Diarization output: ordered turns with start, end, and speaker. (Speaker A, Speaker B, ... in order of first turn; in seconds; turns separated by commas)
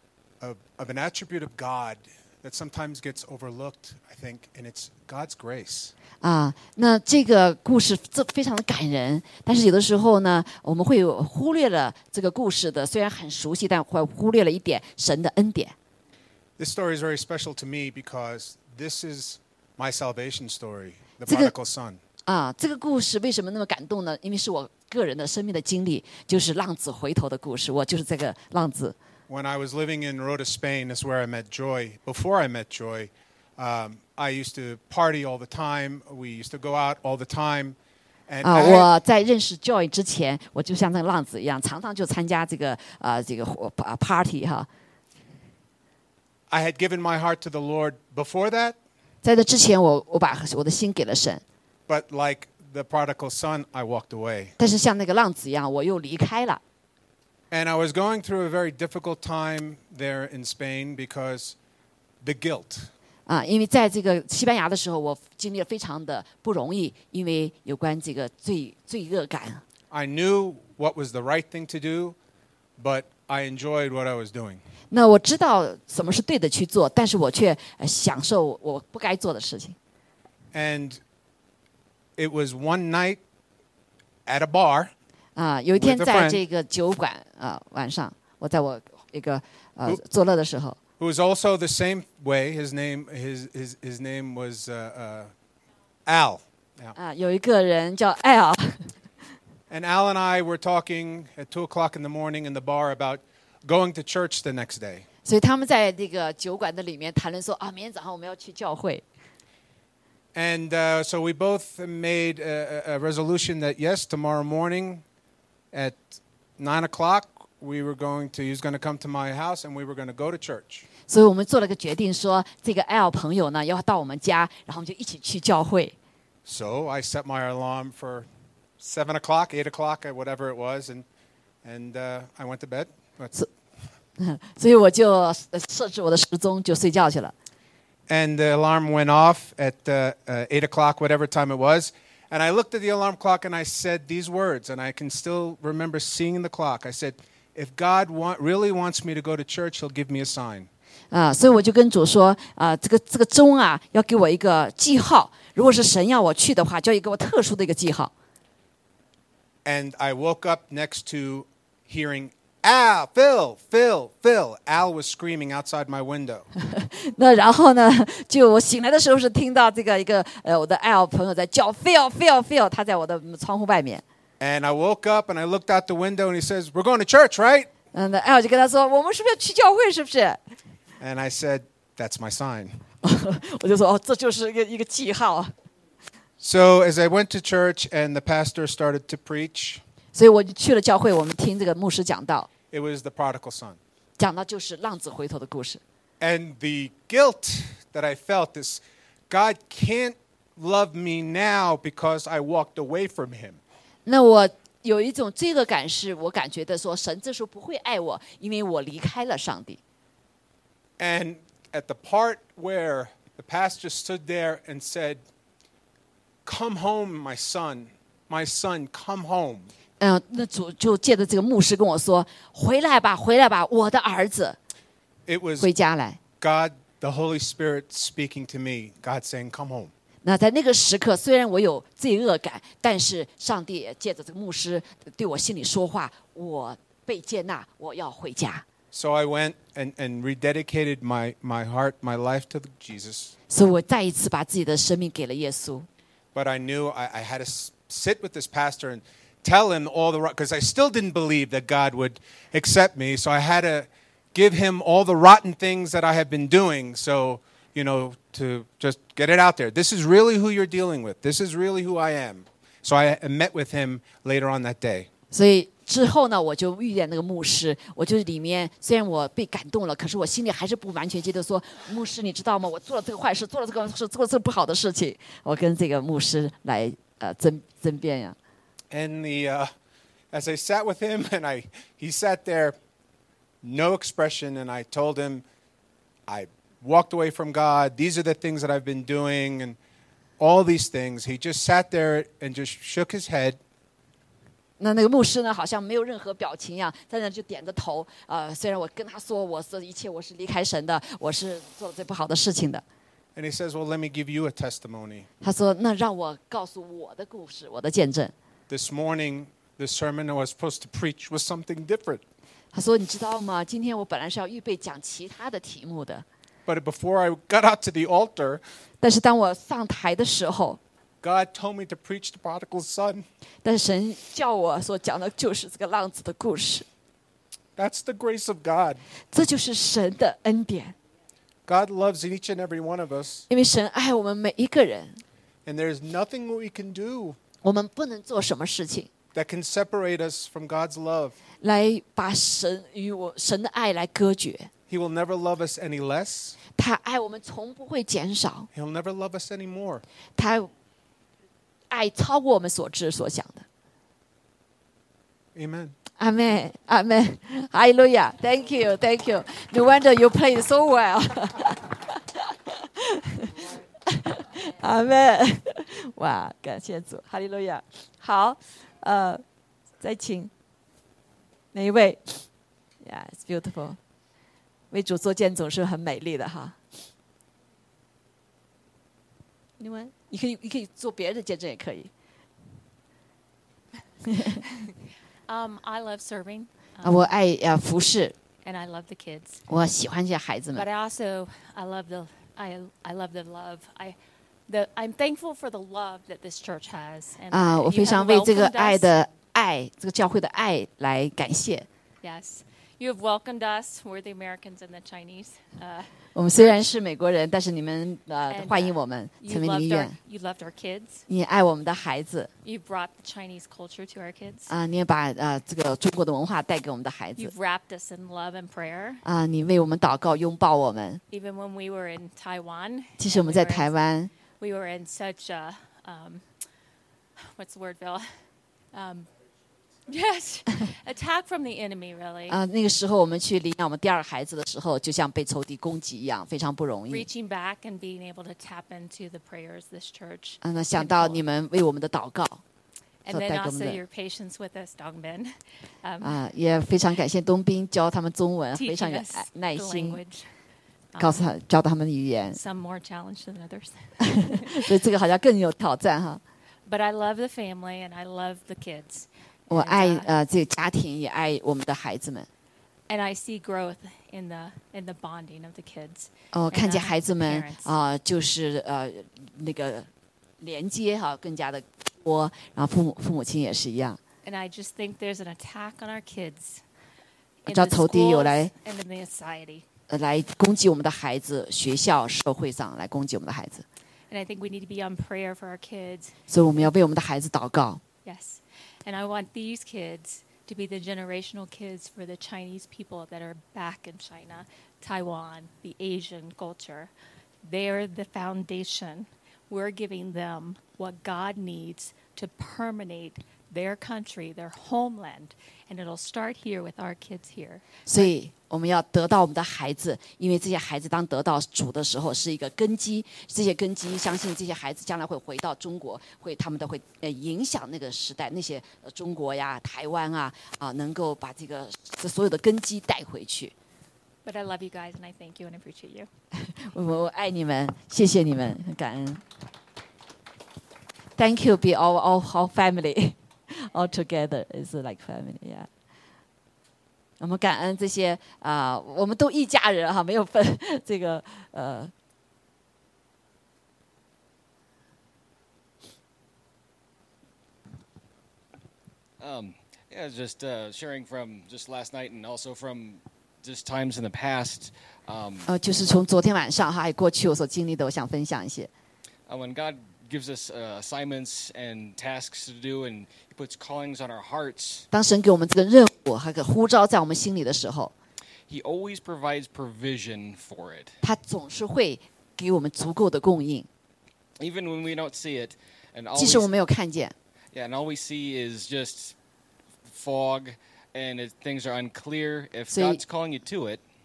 Speaker A: 0.4-5.9, Speaker B: 6.2-15.8, Speaker A: 16.6-22.0, Speaker B: 22.3-28.9, Speaker A: 29.3-37.8, Speaker A: 38.3-38.9, Speaker B: 38.4-44.7, Speaker A: 46.5-48.8, Speaker B: 49.2-51.4, Speaker A: 51.9-54.5, Speaker B: 54.6-56.6, Speaker A: 57.5-61.6, Speaker A: 62.2-62.9, Speaker B: 63.3-69.6, Speaker A: 69.9-72.2, Speaker A: 72.8-74.6, Speaker B: 74.9-79.8, Speaker A: 80.5-81.0, Speaker A: 82.2-83.2, Speaker A: 84.3-84.9, Speaker B: 85.4-90.8, Speaker A: 85.8-86.4, Speaker A: 91.0-95.3, Speaker A: 96.1-96.9, Speaker B: 97.0-98.9, Speaker A: 99.7-105.1, Speaker B: 105.2-109.0, Speaker A: 110.3-115.0, Speaker A: 115.7-120.9, Speaker B: 121.1-126.0, Speaker A: 126.5-128.3, Speaker A: 128.8-131.1, Speaker A: 131.6-133.3, Speaker B: 134.2-137.3, Speaker A: 138.1-150.7, Speaker B: 151.1-158.1, Speaker A: 159.7-166.5, Speaker B: 166.7-174.0, Speaker A: 174.4-177.7, Speaker B: 177.9-180.4, Speaker A: 181.0-182.9, Speaker B: 183.0-185.5, Speaker A: 186.4-189.8, Speaker B: 190.1-192.5, Speaker A: 192.7-193.8, Speaker B: 194.2-195.8, Speaker A: 196.2-203.6, Speaker B: 204.1-209.8, Speaker A: 211.0-215.2, Speaker A: 216.4-219.7, Speaker B: 220.0-224.6, Speaker A: 225.3-225.7, Speaker B: 225.6-226.2, Speaker A: 226.4-229.9, Speaker B: 230.2-238.7, Speaker A: 238.9-243.3, Speaker B: 243.5-245.9, Speaker A: 246.3-265.1, Speaker B: 265.3-278.4, Speaker A: 278.9-279.7, Speaker A: 280.3-282.8, Speaker A: 283.6-285.4, Speaker A: 286.3-289.8, Speaker A: 290.4-293.6, Speaker B: 294.8-302.8, Speaker A: 303.4-305.3, Speaker B: 305.4-308.3, Speaker A: 308.7-312.2, Speaker B: 312.7-316.2, Speaker A: 316.7-318.6, Speaker B: 319.0-320.8, Speaker A: 321.2-323.3, Speaker B: 323.6-326.9, Speaker A: 327.8-329.0, Speaker B: 329.3-330.9, Speaker A: 331.7-333.5, Speaker B: 333.5-335.2, Speaker A: 335.7-337.4, Speaker B: 337.6-339.1, Speaker A: 339.3-341.4, Speaker B: 341.6-344.7, Speaker A: 344.9-346.6, Speaker B: 346.8-348.7, Speaker A: 348.7-350.0, Speaker B: 350.4-350.7, Speaker B: 351.9-353.6, Speaker A: 355.6-356.0, Speaker B: 356.2-362.0, Speaker B: 364.3-369.4, Speaker B: 370.0-370.5, Speaker B: 371.7-372.5, Speaker B: 373.0-374.0, Speaker B: 374.9-376.8, Speaker B: 379.8-382.1, Speaker C: 385.5-387.3, Speaker B: 387.0-388.4, Speaker C: 388.6-389.6, Speaker B: 389.7-390.9, Speaker C: 390.7-399.1, Speaker B: 397.5-401.9, Speaker C: 402.2-406.7, Speaker B: 406.4-410.2, Speaker C: 408.5-411.2, Speaker B: 411.3-412.5, Speaker C: 412.6-414.7, Speaker B: 414.7-417.5, Speaker C: 417.4-419.2, Speaker B: 419.2-421.2, Speaker C: 421.3-423.9, Speaker B: 423.2-424.3, Speaker C: 424.6-426.6, Speaker C: 427.6-429.3, Speaker C: 430.1-432.6, Speaker B: 432.5-437.3, Speaker C: 437.1-441.4, Speaker B: 440.6-442.6, Speaker C: 443.2-446.4, Speaker B: 443.3-444.0, Speaker B: 446.2-450.2, Speaker C: 448.7-450.6, Speaker C: 451.1-451.4, Speaker B: 451.2-452.6, Speaker C: 452.5-454.9, Speaker B: 454.8-456.4, Speaker C: 456.9-460.3, Speaker B: 459.7-462.5, Speaker C: 463.1-467.9, Speaker B: 466.5-470.1, Speaker B: 470.6-474.2, Speaker C: 474.4-476.8, Speaker C: 477.6-479.9, Speaker B: 477.7-478.7, Speaker B: 480.1-483.9, Speaker C: 484.3-486.4, Speaker B: 486.5-488.0, Speaker C: 488.2-497.1, Speaker C: 497.6-508.3, Speaker B: 508.1-523.7, Speaker C: 524.4-526.3, Speaker B: 526.9-529.4, Speaker B: 531.4-535.9, Speaker B: 537.4-542.1, Speaker D: 549.4-555.7, Speaker B: 555.7-558.9, Speaker D: 559.5-565.1, Speaker B: 565.1-568.1, Speaker D: 568.7-571.1, Speaker B: 571.2-573.9, Speaker D: 574.6-576.7, Speaker B: 576.4-577.3, Speaker D: 577.7-579.4, Speaker D: 580.0-584.0, Speaker B: 582.9-583.2